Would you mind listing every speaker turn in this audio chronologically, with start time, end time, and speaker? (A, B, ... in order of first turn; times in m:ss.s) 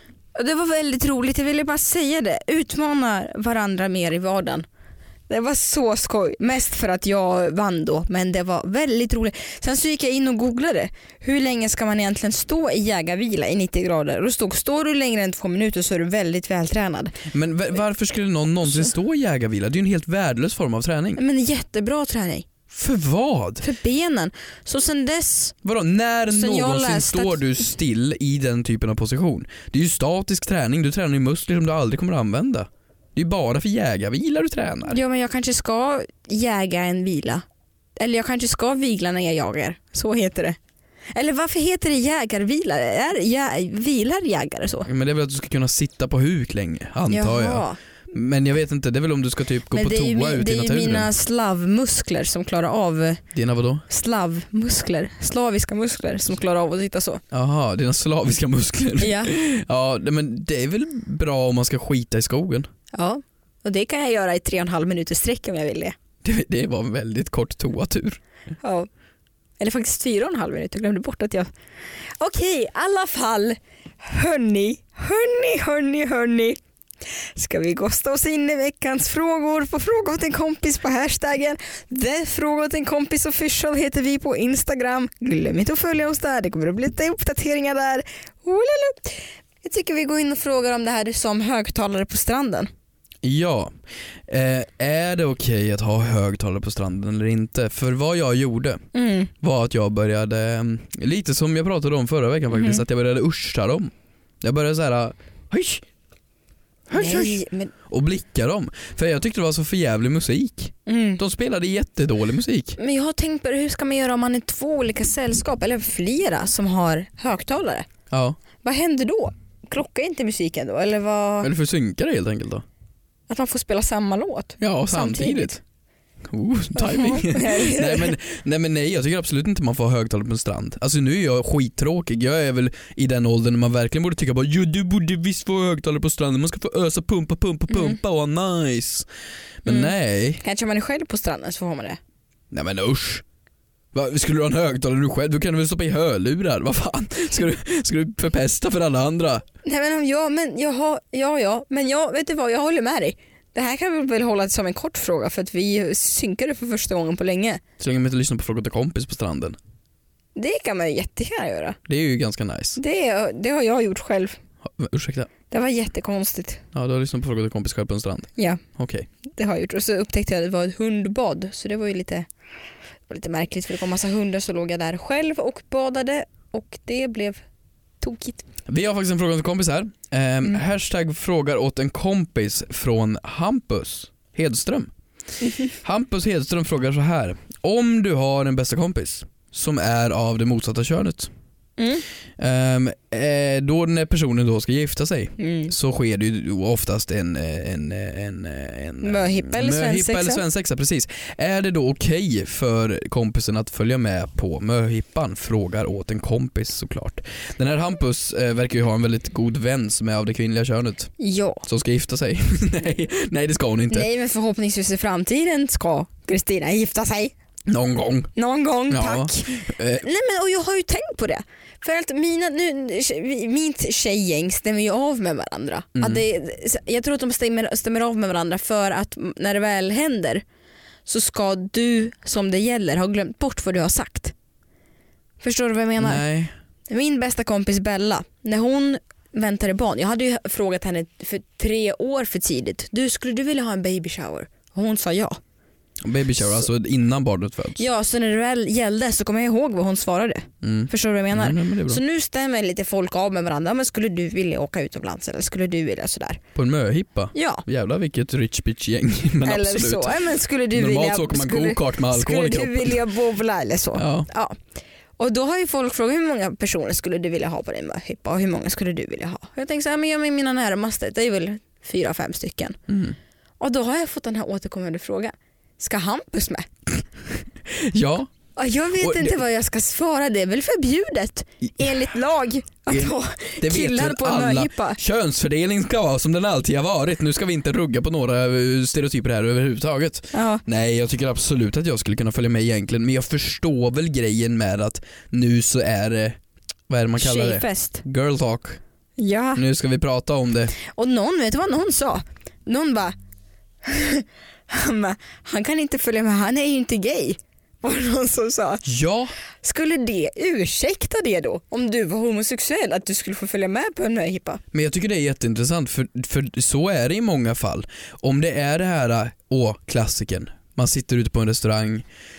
0:00.4-0:04.6 A
0:05.3-0:17.2 A
0:17.3-0:21.2 B
0:21.2-0:22.5 A
0:22.7-0:23.6 B
0:23.6-0:25.5 A
0:25.6-0:35.0 B
0:26.3-0:27.4 A
0:34.9-0:37.4 A
0:38.0-0:40.6 A
0:41.1-0:44.9 A
0:44.8-0:51.1 B
0:47.1-0:47.8 A
0:49.7-0:53.2 A
0:53.3-0:53.8 B
0:53.9-0:57.2 A
0:57.3-1:02.7 B
0:59.0-0:59.3 A
1:02.9-1:05.9 A
1:06.2-1:08.2 B
1:08.6-1:08.9 A
1:09.6-1:11.5 A
1:12.2-1:16.6 A
1:17.3-1:32.7 A
1:33.2-1:33.7 B
1:34.3-1:38.8 B
1:38.9-1:39.3 A
1:39.4-1:45.8 B
1:42.5-1:42.8 A
1:46.9-1:52.8 B
1:46.9-1:47.7 A
1:50.8-1:51.2 A
1:52.8-1:57.9 A
1:58.1-1:58.4 B
1:58.6-2:01.5 A
2:01.4-2:02.6 B
2:03.3-2:05.6 A
2:04.6-2:05.6 B
2:06.2-2:19.1 B
2:06.8-2:08.1 A
2:17.7-2:18.0 A
2:19.6-2:20.4 B
2:19.6-2:22.0 A
2:22.5-2:23.2 B
2:23.9-2:29.4 B
2:29.6-2:37.6 A
2:37.8-2:39.6 B
2:40.4-2:41.8 A
2:41.9-2:42.8 B
2:42.8-2:44.4 A
2:44.6-2:45.3 B
2:45.5-2:46.6 A
2:46.7-2:49.1 B
2:49.2-2:52.3 A
2:53.1-2:57.4 A
2:58.0-2:58.4 A
2:58.7-3:04.9 B
3:05.4-3:05.7 A
3:05.8-3:11.3 B
3:11.8-3:12.0 A
3:12.4-3:31.1 B
3:15.4-3:15.7 A
3:19.0-3:20.4 A
3:31.2-3:31.6 A
3:31.6-3:34.1 B
3:33.9-3:37.3 A
3:37.7-3:38.3 B
3:38.3-3:50.4 A
3:38.9-3:40.0 B
3:45.9-3:46.2 B
3:51.0-3:54.3 A
3:55.4-3:56.2 A
3:56.0-3:56.5 B
3:56.9-4:05.4 A
4:06.0-4:07.8 B
4:07.8-4:16.4 A
4:10.6-4:12.0 B
4:16.5-4:23.0 B
4:17.3-4:17.6 A
4:19.4-4:24.6 A
4:24.0-4:24.3 B
4:25.2-4:32.8 A
4:32.9-4:33.2 B
4:33.6-4:36.7 A
4:37.7-4:38.3 B
4:38.6-4:45.0 A
4:39.0-4:39.4 B
4:42.9-4:58.8 B
4:50.3-4:50.6 A
4:57.2-4:58.0 A
4:59.2-4:59.6 A
4:59.5-5:00.7 B
5:00.8-5:03.1 A
5:03.8-5:08.8 A
5:08.8-5:09.3 B
5:09.6-5:14.6 A
5:14.7-5:22.0 B